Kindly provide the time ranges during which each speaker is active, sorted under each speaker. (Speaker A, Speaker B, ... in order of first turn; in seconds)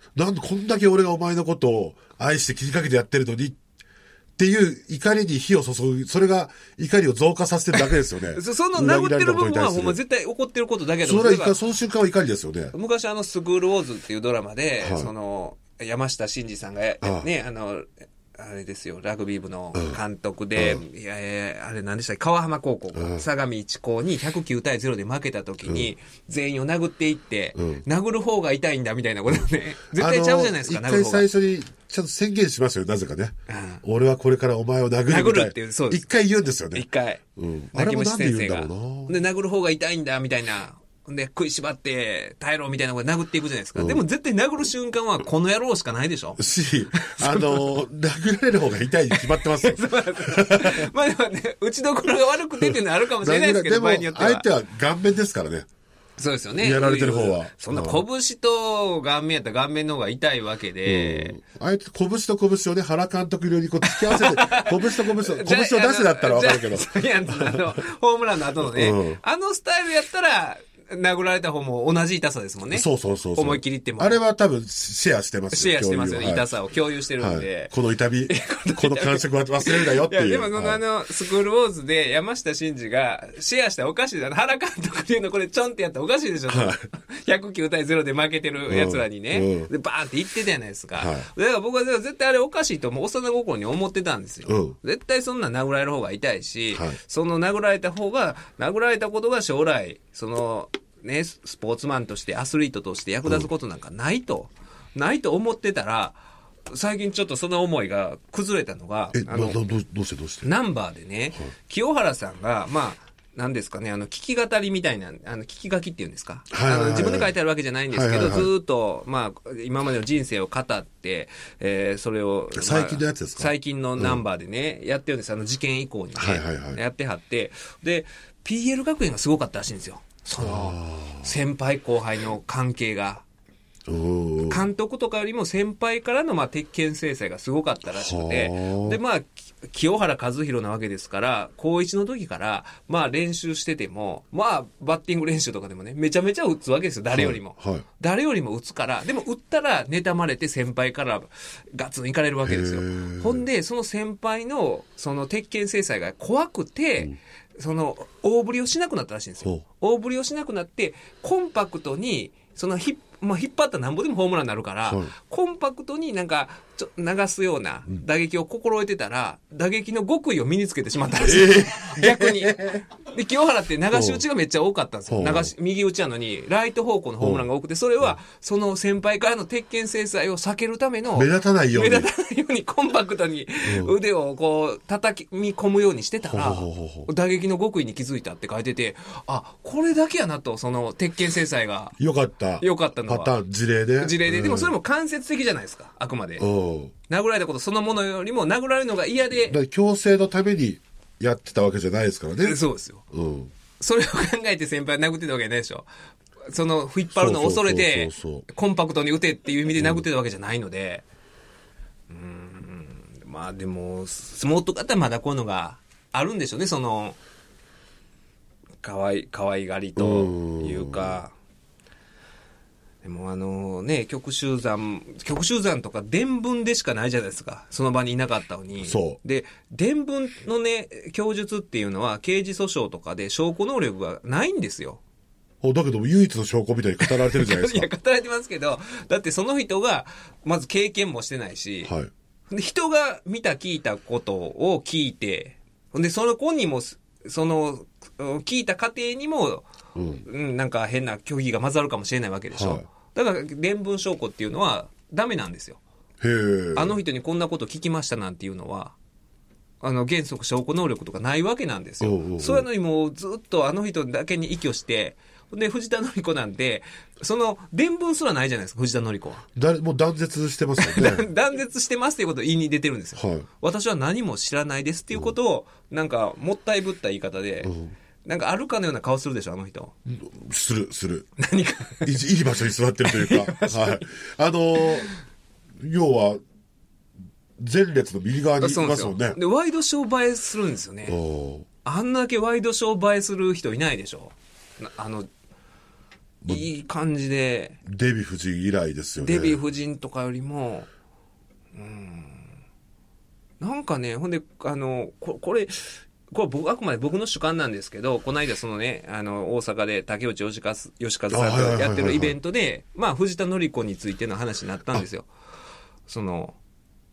Speaker A: 0.1-3.6, 4.4-10.0, 11.0-12.7, 14.8-15.1, 17.0-17.3, 19.7-20.0, 20.6-20.8, 22.9-23.2, 25.6-25.9, 27.6-27.8, 29.3-39.2, 43.7-44.0, 46.4-50.9, 52.6-55.7, 56.6-58.0, 60.8-67.8, 68.6-69.2, 72.7-76.5, 77.2-80.8, 86.5-86.8, 88.7-89.7, 91.0-91.3, 94.5-94.8, 96.7-97.0, 109.1-110.5, 116.5-117.3, 117.9-118.5, 122.5-124.2, 126.2-126.8, 130.4-131.3, 133.9-134.7, 137.9-139.0, 147.1-147.8, 152.4-153.4, 164.8-165.1, 171.2-172.8, 173.9-174.2, 175.1-175.5, 177.2-177.4, 181.1-182.1, 183.6-183.9, 186.3-187.1, 192.0-194.7, 196.4-196.9, 199.5-202.6, 203.1-203.5, 207.1-208.4, 209.8-210.0, 219.9-221.2, 228.8-229.2, 235.6-237.9, 241.8-242.1, 249.9-250.2, 252.5-252.8, 256.2-257.0, 262.0-262.7, 269.6-271.3, 273.1-273.5, 277.6-277.9, 280.1-281.3, 282.0-285.1, 285.8-286.4, 287.6-289.4, 291.1-291.7, 297.8-299.6, 311.3-312.4
Speaker B: 8.3-11.6, 12.7-31.3, 33.5-33.8, 35.1-36.1, 36.7-37.2, 37.7-46.4, 46.9-47.7, 49.1-54.5, 56.2-61.4, 63.9-74.2, 75.5-77.7, 78.3-109.6, 110.4-133.2, 134.5-191.9, 192.6-193.3, 194.0-196.5, 197.1-199.6, 202.4-203.0, 203.8-205.9, 206.5-211.0, 212.1-217.2, 218.8-221.3, 223.0-235.0, 237.0-241.9, 242.5-249.7, 250.2-255.8, 256.7-258.9, 259.8-269.4, 270.8-277.7, 278.2-279.9, 281.4-282.1, 283.0-284.1, 288.6-291.2, 291.8-295.3, 296.4-297.8, 299.2-300.9, 301.7-302.5, 303.6-315.3, 316.1-316.6